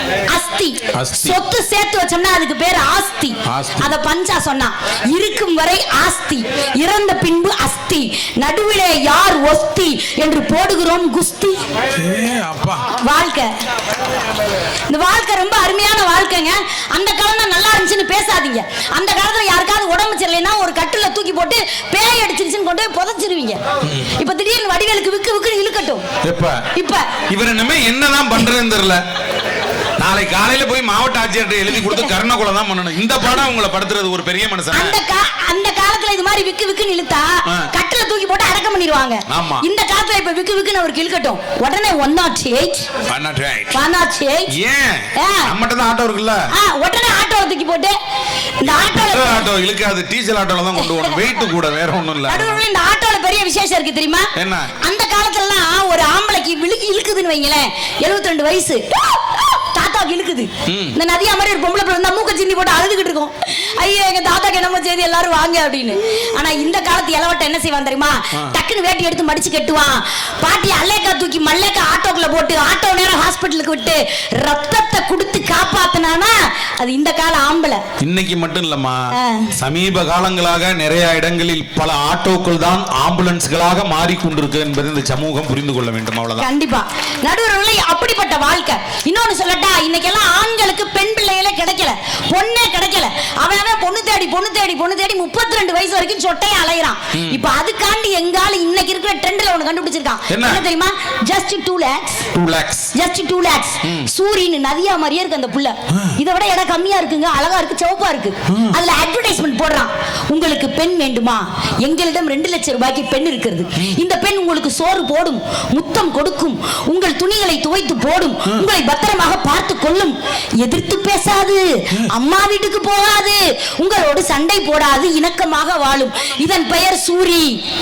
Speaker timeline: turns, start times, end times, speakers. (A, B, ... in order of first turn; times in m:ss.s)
0:00.3-0:11.6 A
0:00.9-0:01.4 B
0:03.5-0:04.0 B
0:12.0-0:12.9 B
0:13.0-0:13.5 A
0:14.9-0:26.1 A
0:23.8-0:24.1 B
0:26.2-0:26.7 B
0:26.7-0:27.2 A
0:27.3-0:29.0 B
0:30.0-0:35.0 B
0:34.7-0:42.9 A
0:37.5-0:37.7 B
0:39.3-0:39.7 B
0:43.1-0:43.8 B
0:43.7-0:44.6 A
0:44.5-0:46.5 B
0:45.2-0:45.5 A
0:46.5-0:48.0 A
0:48.6-0:49.5 A
0:48.6-0:52.6 B
0:52.3-1:17.8 A
0:54.4-0:54.7 B
1:00.7-1:01.0 B
1:18.0-1:26.5 B
1:19.1-1:19.5 A
1:26.4-1:42.3 A
1:37.1-1:37.4 B
1:40.3-1:40.6 B
1:42.3-1:42.9 B
1:42.9-2:07.6 A
1:43.8-1:44.1 B
1:45.9-1:46.2 B
1:48.5-1:48.8 B